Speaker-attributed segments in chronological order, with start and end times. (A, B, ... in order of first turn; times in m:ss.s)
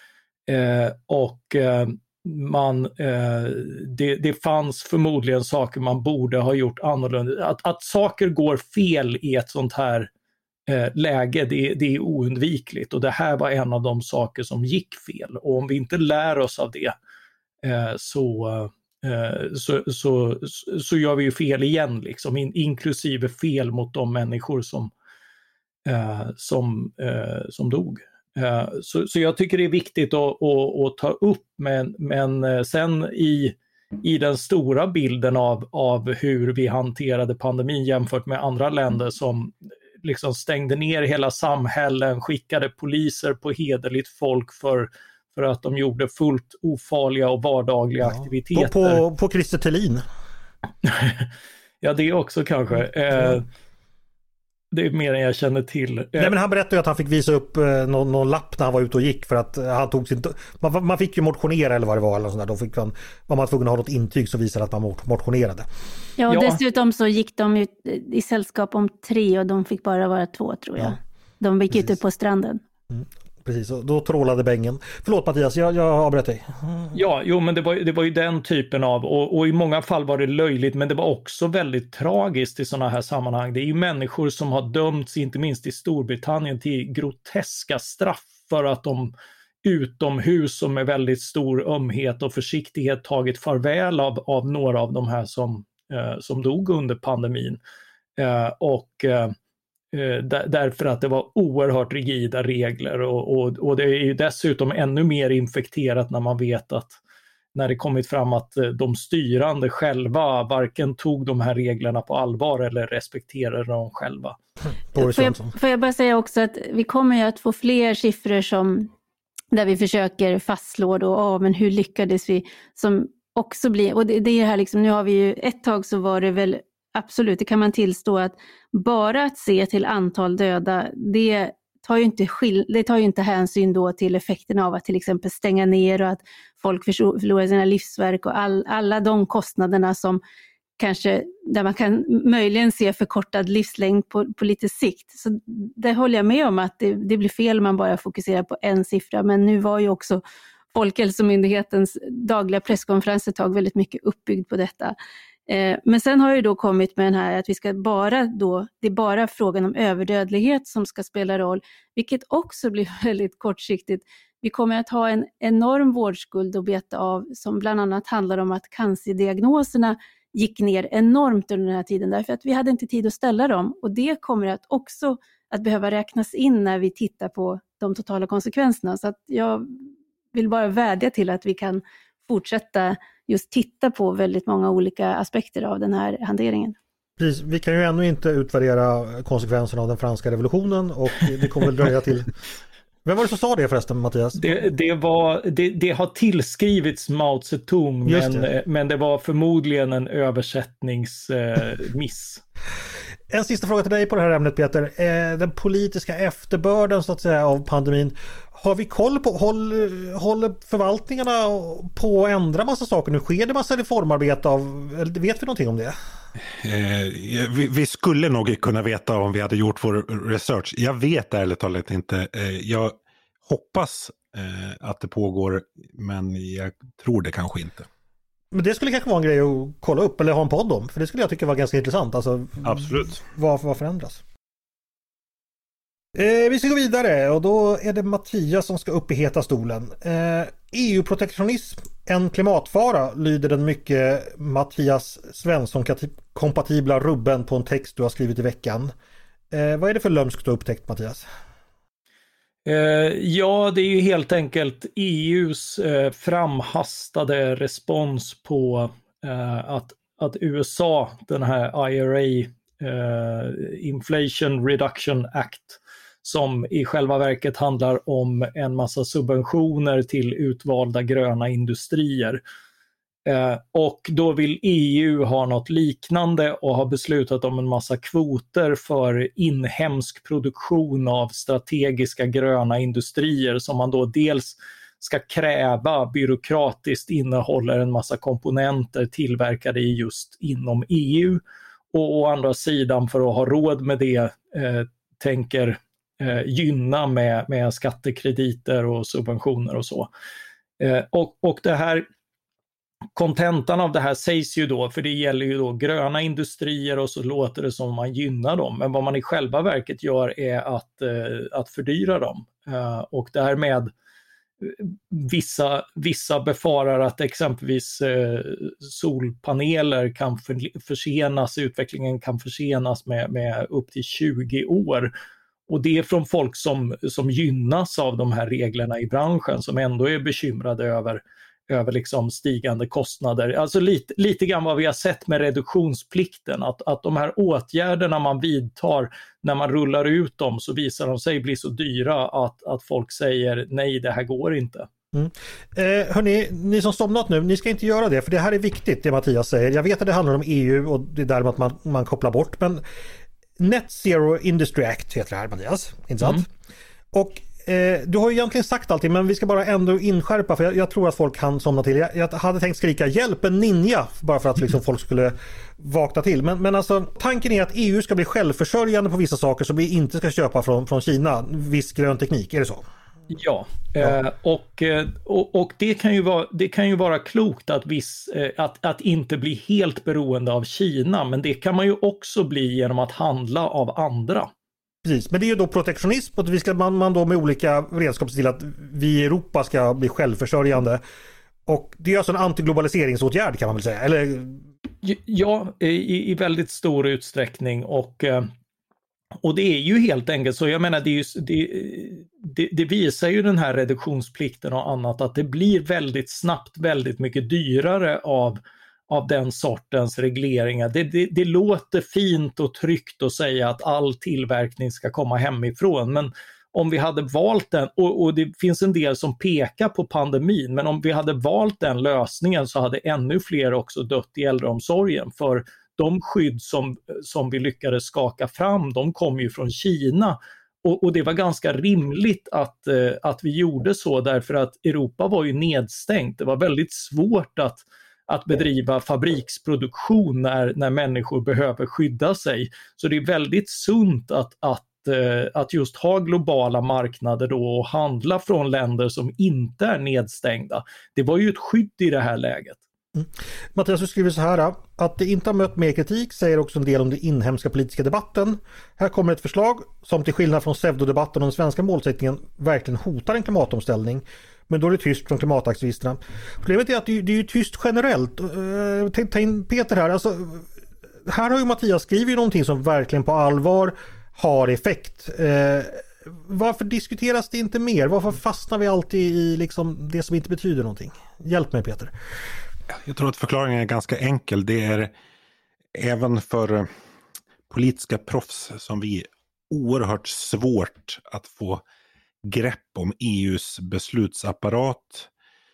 0:00.5-0:10.1 A
0:10.7-0:16.9 A
0:17.6-0:24.9 A
0:25.8-0:49.0 A
0:48.0-0:50.0 B
0:50.8-0:53.4 A
0:54.7-0:56.3 A
0:56.2-1:05.7 B
1:06.2-1:12.6 C
1:06.3-1:06.6 A
1:12.9-1:17.0 B
1:16.9-1:29.1 A
1:29.6-1:37.6 A
1:38.2-1:39.3 A
1:39.9-1:47.0 A
1:47.5-1:54.4 A
1:54.9-1:55.5 B
1:55.0-1:58.9 C
1:59.5-2:20.2 C
2:20.8-2:30.2 C
2:30.7-2:34.9 C
2:35.5-2:59.7 C
3:00.3-3:06.8 C
3:07.2-3:12.3 B
3:13.0-3:14.6 B
3:14.4-3:22.4 A
3:18.0-3:18.5 B
3:23.3-3:36.0 B
3:36.6-3:47.9 D
3:48.5-3:54.2 B
3:52.6-3:53.1 D
3:56.1-4:08.9 B
4:09.5-4:11.2 B
4:12.6-4:32.4 A
4:33.2-4:51.4 A
4:51.9-5:00.1 A
5:00.8-5:02.1 A
5:03.1-5:13.9 A
5:14.6-5:25.1 A
5:25.7-5:44.9 A
5:45.1-5:52.8 B
5:53.6-5:56.5 B
5:57.1-6:12.8 B
6:13.3-6:24.5 A
6:25.0-6:31.0 B
6:31.6-6:34.6 B
6:35.0-6:38.5 A
6:39.4-7:32.8 A
7:33.1-7:50.6 B
7:51.2-8:02.1 B
8:02.9-8:05.1 D
8:05.9-8:06.9 D
8:07.7-8:11.8 D
8:12.4-8:15.3 D